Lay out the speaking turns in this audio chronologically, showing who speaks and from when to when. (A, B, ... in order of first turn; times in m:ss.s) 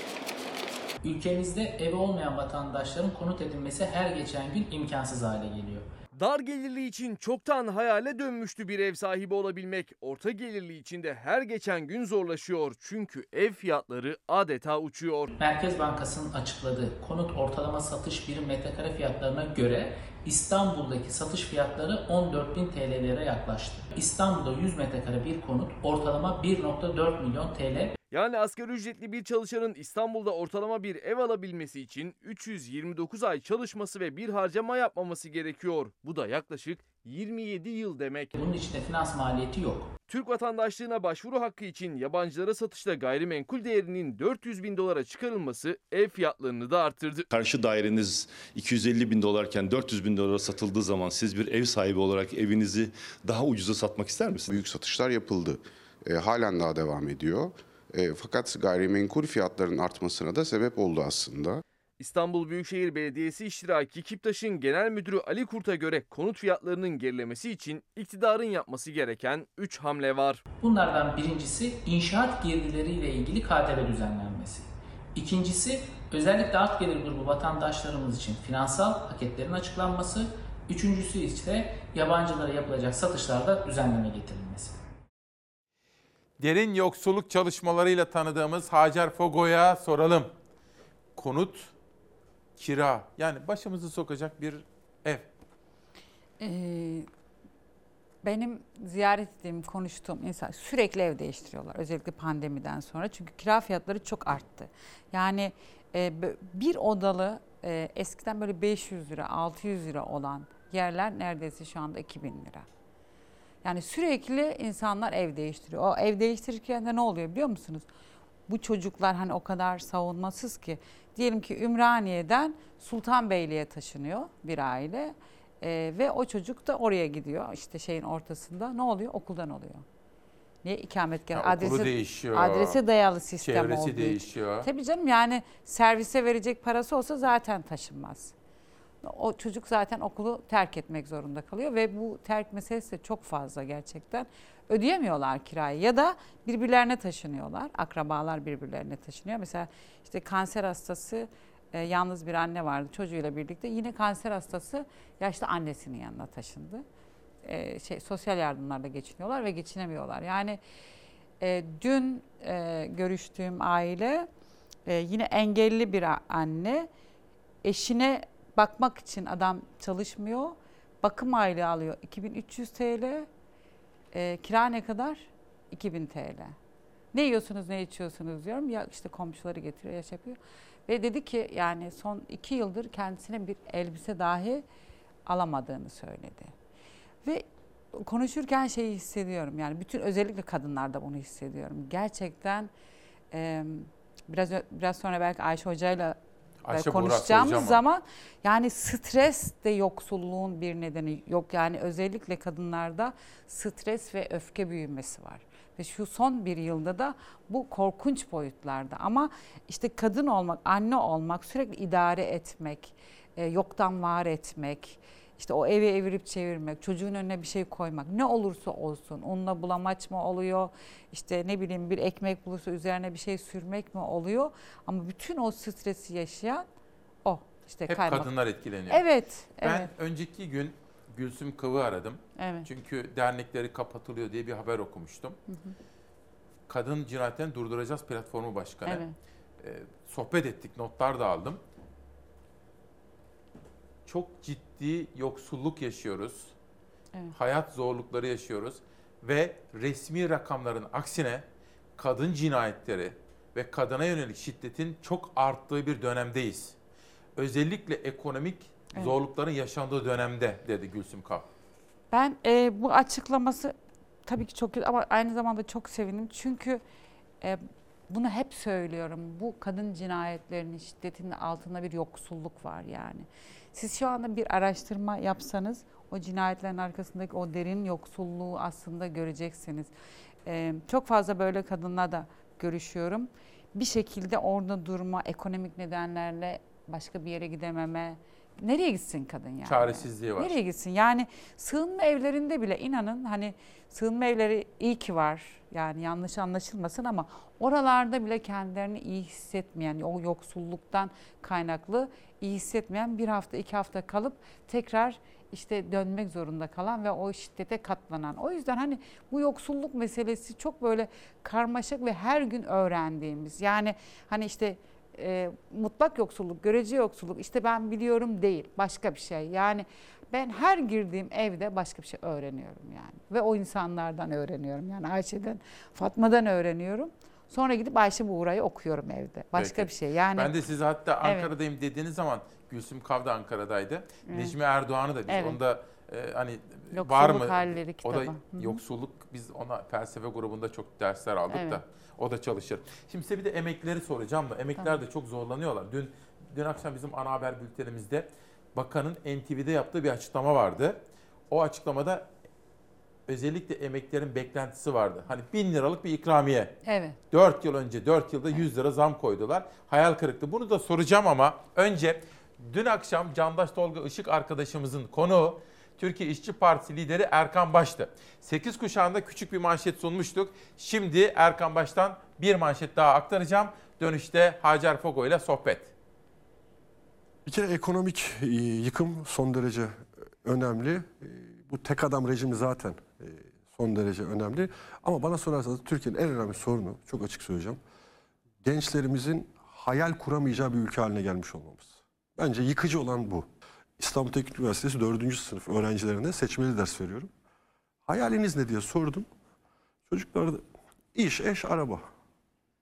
0:01.0-0:05.9 A
0:06.2-0:15.3 B
0:15.4-0:27.9 A
0:28.1-0:38.3 B
0:38.3-0:39.9 A
0:40.1-0:47.3 B
0:47.3-0:54.5 C
0:54.5-1:01.6 D
1:02.0-1:10.4 B
1:10.6-1:24.8 A
1:26.4-1:30.3 E
1:31.2-1:31.7 E
1:32.6-1:35.3 E
1:36.4-1:37.1 F
1:38.2-1:52.7 F
1:53.6-1:57.9 F
1:58.5-2:09.8 F
2:10.6-2:18.3 F
2:11.3-2:12.8 E
2:13.4-2:14.7 E
2:19.0-2:36.8 F
2:37.4-2:40.6 F
2:41.4-2:44.3 F
2:44.9-2:46.9 F
2:47.6-2:53.3 F
2:54.1-2:56.5 F
2:57.1-3:04.6 F
3:05.3-3:06.5 F
3:07.2-3:12.7 F
3:13.3-3:16.2 F
3:16.6-3:17.8 E
3:16.7-3:46.7 F
3:47.2-3:48.3 F
3:47.9-3:49.0 E
3:48.9-3:49.9 F
3:49.6-3:55.4 E
3:52.4-3:52.7 F
3:55.5-3:55.7 F
3:56.7-3:59.0 E
3:58.9-3:59.2 F
3:59.6-4:01.6 E
4:04.1-4:06.5 E
4:07.3-4:11.4 E
4:12.0-4:16.8 E
4:17.4-4:21.5 E
4:22.1-4:23.7 F
4:24.3-4:26.8 F
4:27.4-4:39.9 F
4:40.5-5:30.6 F
4:49.6-4:50.6 E
5:29.6-5:51.0 E
5:31.2-5:31.5 F
5:34.3-5:34.6 F
5:35.3-5:35.6 F
5:36.9-5:38.8 F
5:41.5-5:41.8 F
5:51.5-5:52.3 E
5:53.3-5:56.8 E
5:56.8-5:57.2 F
5:57.3-6:15.9 E
6:17.5-6:27.8 G
6:28.6-6:33.5 G
6:34.0-6:37.3 G
6:38.1-6:39.3 G
6:40.1-6:40.6 G
6:41.2-6:42.1 G